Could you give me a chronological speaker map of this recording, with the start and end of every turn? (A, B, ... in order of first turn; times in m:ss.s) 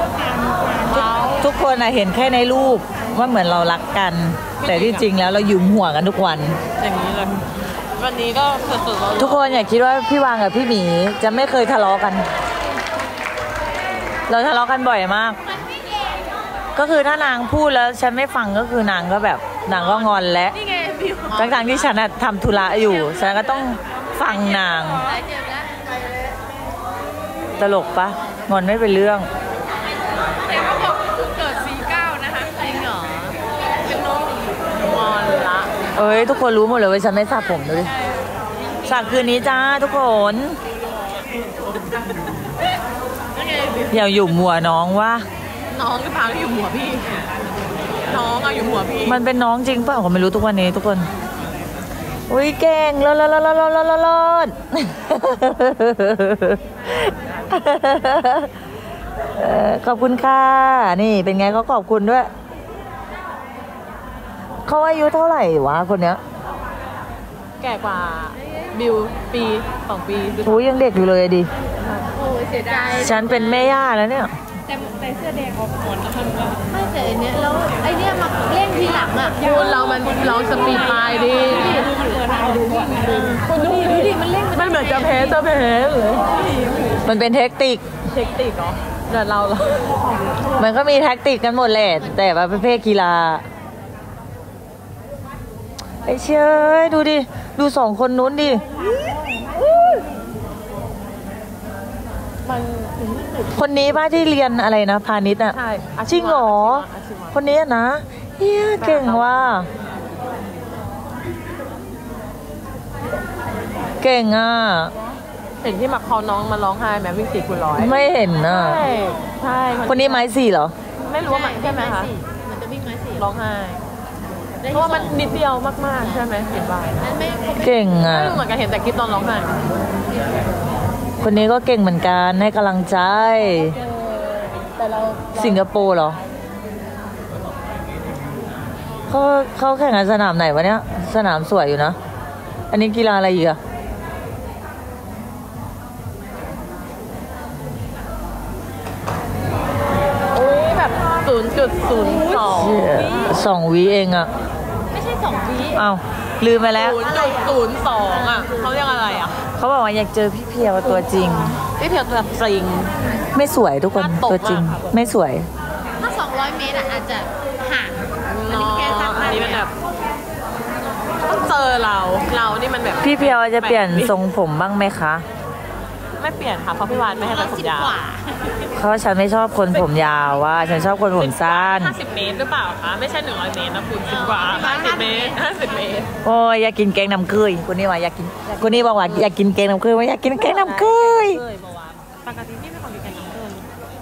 0:00.3-0:01.0 A
0:00.8-0:01.5 B
0:01.4-0:06.6 C
0:04.6-0:05.1 B
0:06.8-0:09.5 B
0:09.2-0:12.3 C
0:14.3-0:15.4 C
0:16.8-0:20.6 C
0:19.7-0:21.8 B
0:20.7-0:21.1 A
0:21.3-0:25.1 C
0:24.8-0:25.8 A
0:27.6-0:29.3 C
0:30.4-0:33.4 A
0:34.0-0:35.7 B
0:36.0-0:37.9 C
0:38.8-0:40.6 C
0:43.4-0:44.0 B
0:43.9-0:45.2 C
0:45.7-0:47.3 B
0:48.1-0:49.2 B
0:49.1-0:51.1 C
0:52.3-0:58.5 C
0:59.4-1:02.3 C
1:04.7-1:06.2 C
1:07.6-1:10.7 B
1:10.4-1:11.5 C
1:11.8-1:12.2 B
1:12.2-1:13.7 A
1:12.9-1:14.3 C
1:16.7-1:25.3 A
1:19.4-1:21.9 B
1:23.0-1:26.9 B
1:27.0-1:27.8 C
1:28.1-1:29.9 B
1:30.6-1:33.4 C
1:36.0-1:38.9 C
1:42.5-1:43.4 B
1:43.5-1:49.7 C
1:45.5-1:47.6 B
1:48.8-1:49.5 B
1:54.0-1:54.9 C
1:55.6-2:00.3 B
1:57.8-1:58.9 C
1:59.9-2:00.7 C
2:01.0-2:02.1 B
2:01.3-2:03.2 A
2:03.2-2:03.8 B
2:04.6-2:05.2 A
2:04.7-2:07.1 B
2:07.0-2:07.9 A
2:07.6-2:08.4 C
2:08.0-2:09.6 B
2:11.2-2:13.8 C
2:13.7-2:14.3 A
2:14.8-2:15.7 B
2:15.4-2:16.2 C
2:19.1-2:22.0 C
2:22.7-2:23.6 C
2:30.3-2:33.3 B
2:32.4-2:34.3 C
2:34.9-2:35.8 A
2:35.2-2:35.8 B
2:35.7-2:37.0 C
2:36.7-2:39.4 B
2:39.5-2:41.6 C
2:41.8-2:43.0 B
2:43.3-2:45.5 C
2:44.0-2:44.9 B
2:46.0-2:49.6 A
2:48.2-2:49.8 B
2:51.3-2:54.2 B
2:53.0-2:55.2 C
2:56.2-2:58.0 B
2:57.2-2:58.5 A
2:58.7-3:02.0 C
2:59.7-3:00.2 B
3:00.9-3:06.1 B
3:04.0-3:05.4 A
3:06.2-3:11.4 C
3:08.4-3:09.3 B
3:10.4-3:13.7 B